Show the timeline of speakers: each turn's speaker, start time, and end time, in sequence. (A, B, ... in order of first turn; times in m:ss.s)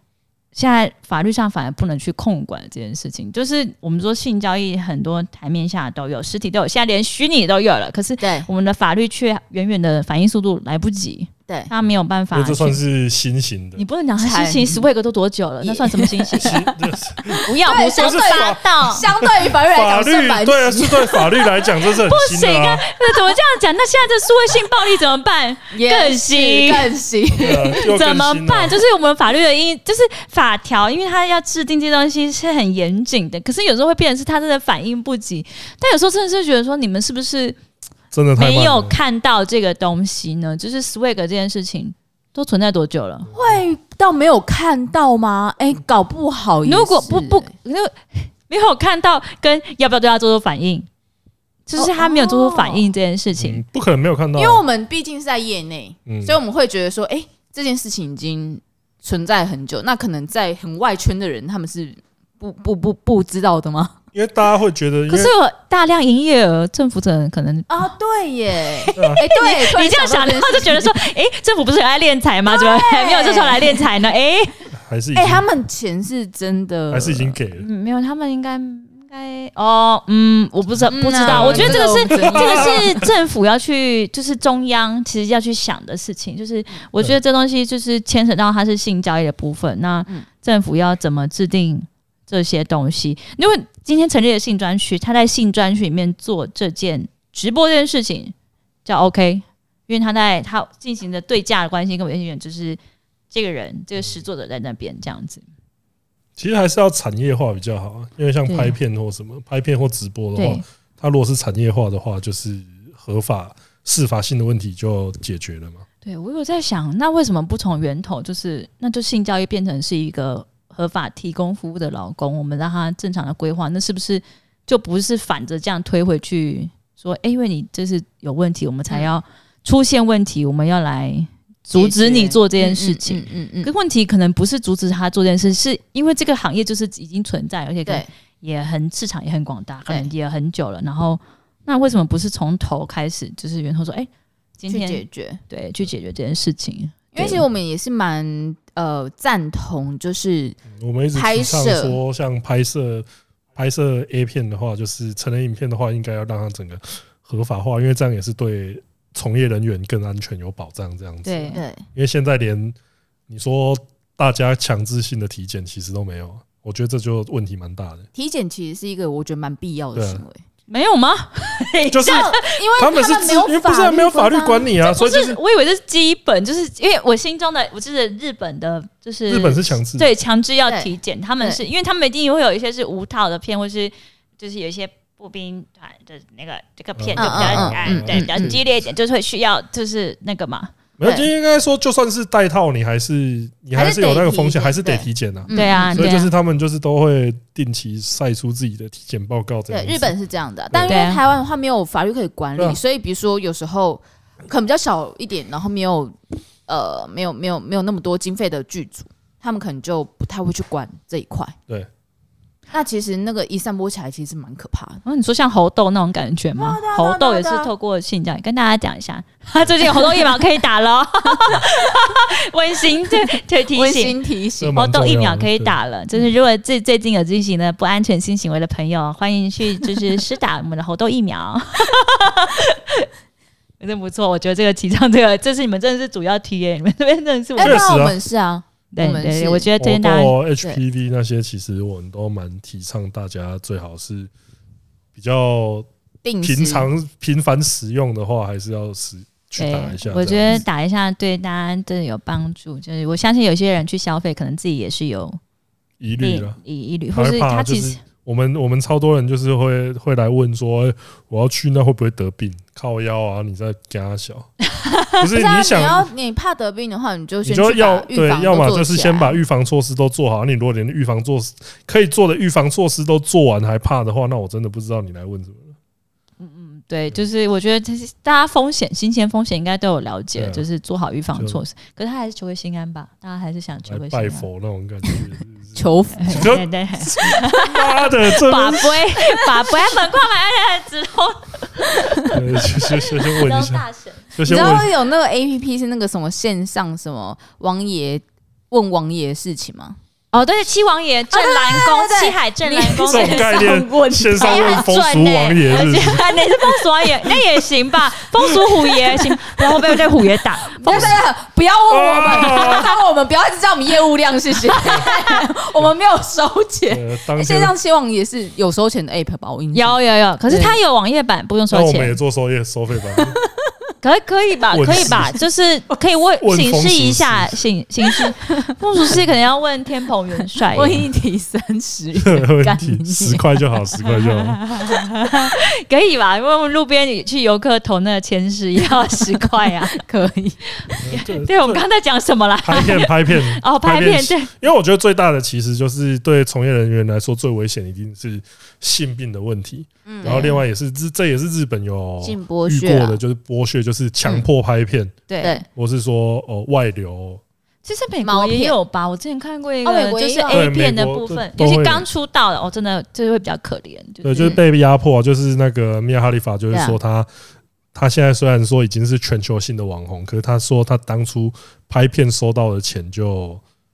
0:00.5-0:12.8 A
0:08.2-0:08.5 B
0:12.3-0:13.8 C
0:13.8-0:16.6 A
0:14.2-0:14.8 B
0:15.6-0:16.7 B
0:16.4-0:22.8 C
0:17.4-0:19.1 A
0:17.6-0:21.4 B
0:22.0-0:26.9 A
0:25.7-0:27.8 B
0:27.4-0:28.8 C
0:27.7-0:37.6 A
0:38.1-0:39.0 C
0:38.4-0:43.3 A
0:43.2-0:43.6 C
0:43.3-0:47.5 B
0:46.6-0:50.9 A
0:51.7-0:53.6 A
0:51.8-0:52.9 B
0:53.4-0:54.6 C
0:54.4-1:04.0 B
0:56.0-0:56.4 C
1:04.1-1:05.3 C
1:05.1-1:07.9 A
1:07.7-1:10.9 B
1:08.7-1:14.5 A
1:09.0-1:09.2 C
1:12.5-1:13.8 B
1:14.8-1:15.4 C
1:15.1-1:17.4 B
1:16.9-1:17.7 C
1:17.6-1:38.3 A
1:20.9-1:23.0 B
1:21.2-1:23.1 C
1:38.8-1:42.8 A
1:43.3-1:45.4 A
1:46.4-1:55.8 C
1:48.5-1:48.7 A
1:50.4-1:50.6 A
1:56.0-2:27.4 A
2:11.7-2:13.7 B
2:24.7-2:25.4 B
2:27.1-2:30.6 B
2:30.7-2:42.8 C
2:31.1-2:32.0 B
2:41.2-2:41.6 A
2:41.5-2:41.8 B
2:43.3-2:48.0 C
2:48.1-2:50.4 B
2:49.9-2:50.2 C
2:50.7-2:52.4 A
2:51.9-2:55.4 C
2:52.0-2:54.7 B
2:54.8-3:10.7 A
2:59.3-3:00.1 C
3:07.0-3:08.6 C
3:07.2-3:08.6 B
3:11.0-3:20.1 C
3:11.0-3:11.3 B
3:13.7-3:16.1 B
3:15.5-3:16.3 A
3:19.7-3:31.6 B
3:20.7-3:21.0 C
3:20.8-3:21.2 A
3:32.7-3:35.0 B
3:35.0-3:44.2 A
3:36.6-3:37.7 B
3:43.7-3:44.8 B
3:44.6-3:45.8 C
3:44.7-3:53.1 A
3:53.8-3:57.8 A
3:57.6-3:59.7 B
3:57.6-3:58.2 C
3:58.9-4:00.4 A
3:59.8-4:04.3 C
4:05.1-4:05.9 C
4:06.2-4:06.9 B
4:06.4-4:10.6 C
4:09.6-4:15.4 A
4:16.0-4:16.6 C
4:16.2-4:18.0 A
4:17.1-4:24.5 C
4:24.8-4:25.2 A
4:25.2-4:26.1 C
4:25.3-4:29.4 B
4:27.4-4:35.8 C
4:36.4-4:44.5 A
4:40.3-4:40.6 C
4:41.3-4:41.6 C
4:43.8-4:49.1 C
4:45.8-4:46.5 B
4:46.2-4:54.8 A
4:51.9-4:52.3 B
4:52.3-4:54.9 C
4:54.4-5:00.0 B
5:00.3-5:11.2 A
5:01.3-5:04.9 B
5:03.0-5:06.4 C
5:10.7-5:20.8 B
5:10.9-5:11.2 C
5:11.9-5:12.9 C
5:12.4-5:12.8 A
5:16.9-5:17.7 C
5:19.7-5:22.2 A
5:21.7-5:23.4 C
5:23.1-5:23.8 B
5:24.0-5:31.0 A
5:24.7-5:25.4 C
5:26.4-5:27.6 C
5:28.1-5:28.7 B
5:30.5-5:33.6 B
5:32.2-5:34.6 C
5:34.0-5:40.0 A
5:39.3-5:41.0 B
5:40.8-5:44.5 A
5:41.0-5:41.8 C
5:42.6-5:55.2 C
5:50.0-5:50.6 B
5:52.2-5:53.2 B
5:55.3-5:55.6 A
5:55.7-5:57.4 C
5:57.8-6:04.6 A
5:58.2-5:58.8 B
5:59.8-6:00.7 B
6:00.5-6:02.0 C
6:04.2-6:07.3 C
6:06.7-6:07.0 B
6:07.9-6:13.6 C